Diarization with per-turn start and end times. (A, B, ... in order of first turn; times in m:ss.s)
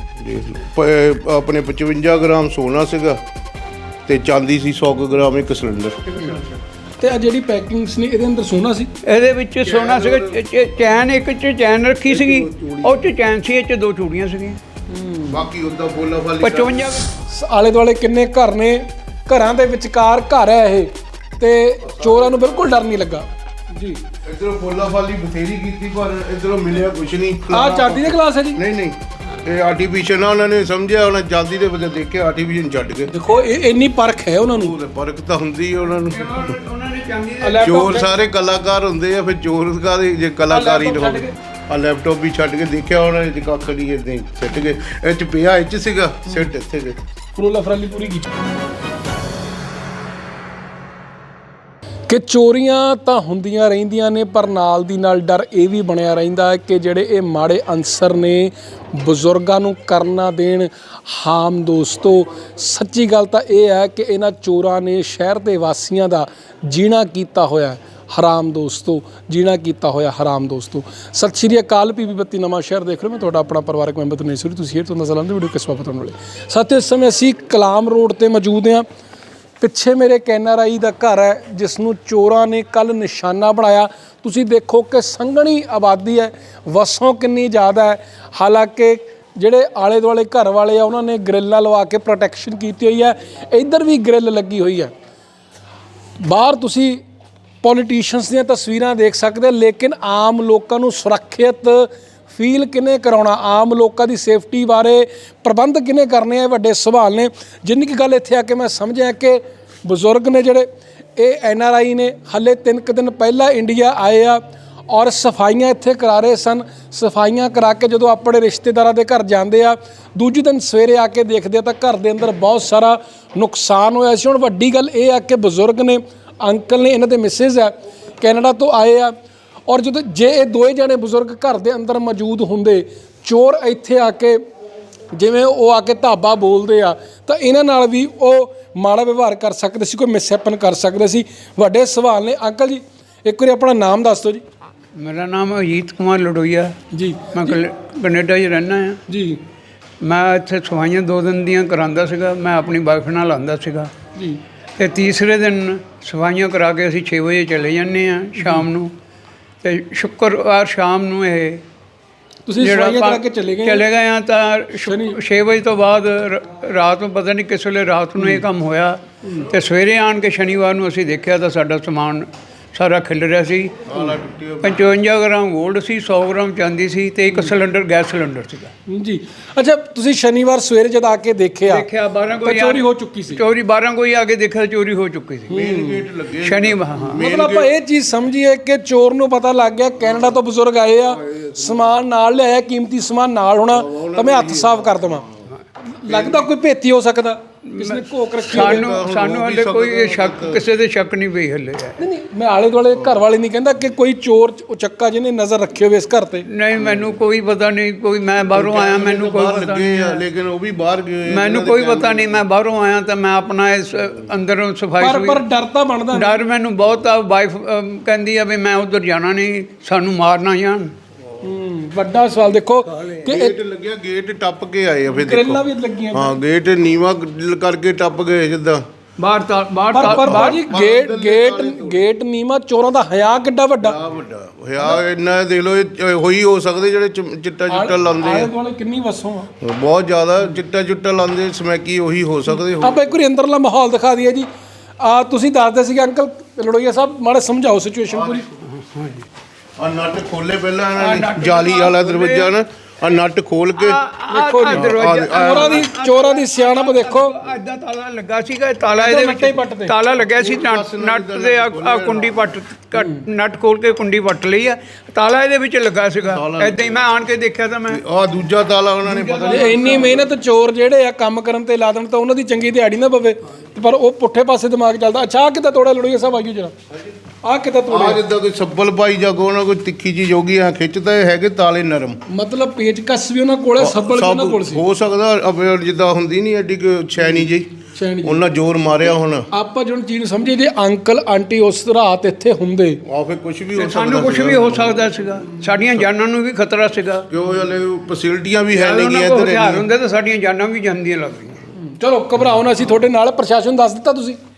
0:00.2-0:03.2 A
0:04.1-0:06.4 A
0:07.0-0:08.9 B
0:09.0-0:14.6 C
0:09.6-0:10.4 A
0:12.0-0:13.0 A
0:14.9-0:15.5 B
0:15.3-0:16.9 A
0:16.4-0:17.1 C
0:17.3-0:24.0 B
0:21.9-0:22.5 A
0:24.2-0:33.1 A
0:27.5-0:28.6 B
0:33.1-0:34.7 B
0:34.5-0:36.5 A
0:35.9-0:37.9 C
0:37.4-0:38.1 B
0:37.6-0:47.0 A
0:40.5-0:41.3 B
0:47.4-0:48.3 B
0:52.1-1:18.8 B
1:19.6-1:34.9 B
1:36.2-1:37.0 B
1:37.6-1:50.6 B
1:51.2-2:09.1 B
2:09.7-2:14.4 B
2:15.1-2:24.4 B
2:25.0-2:26.8 C
2:26.9-2:27.6 B
2:27.3-2:29.0 C
2:29.1-2:29.4 B
2:30.0-2:33.9 C
2:34.1-2:34.4 B
2:34.8-2:38.9 C
2:38.4-2:38.7 B
2:39.6-2:41.6 C
2:42.4-2:43.8 B
2:42.6-2:53.8 C
2:44.8-2:45.2 B
2:48.2-2:48.4 B
2:53.9-2:54.9 A
2:54.6-2:58.7 C
2:58.9-3:01.9 B
3:01.6-3:05.5 C
3:02.4-3:03.4 B
3:05.5-3:06.0 B
3:05.5-3:07.7 A
3:06.4-3:07.2 C
3:07.1-3:15.2 B
3:11.0-3:12.0 A
3:13.7-3:15.3 A
3:16.0-3:18.9 B
3:16.1-3:16.5 A
3:17.7-3:22.0 C
3:18.5-3:20.6 A
3:22.0-3:26.5 B
3:26.4-3:30.2 C
3:28.5-3:32.4 A
3:31.2-3:35.4 C
3:35.0-3:36.4 B
3:36.1-3:40.9 C
3:41.4-3:43.6 B
3:43.2-3:48.8 A
3:45.1-3:46.4 B
3:49.2-3:50.6 C
3:49.9-3:54.0 B
3:50.1-3:52.0 A
3:53.8-3:58.5 A
3:54.8-3:55.0 B
3:57.7-3:59.5 B
3:59.6-4:03.0 A
4:02.7-4:04.5 B
4:05.0-4:08.4 B
4:08.1-4:08.4 A
4:08.6-4:09.2 C
4:09.8-4:14.0 A
4:11.0-4:12.5 C
4:13.8-4:28.0 C
4:14.3-4:17.3 B
4:14.7-4:15.9 A
4:19.0-4:19.9 B
4:20.2-4:22.5 A
4:22.9-4:23.2 B
4:26.3-4:27.0 A
4:27.9-4:30.2 A
4:29.0-4:30.2 C
4:29.5-4:36.7 B
4:37.4-4:38.2 B
4:37.9-4:42.2 A
4:42.3-4:44.8 B
4:43.8-4:47.7 A
4:48.0-4:48.4 B
4:48.2-4:49.5 A
4:49.5-4:53.0 B
4:53.0-4:55.1 A
4:53.7-4:57.3 C
4:57.3-4:59.9 A
4:58.7-5:01.6 C
5:01.8-5:04.4 B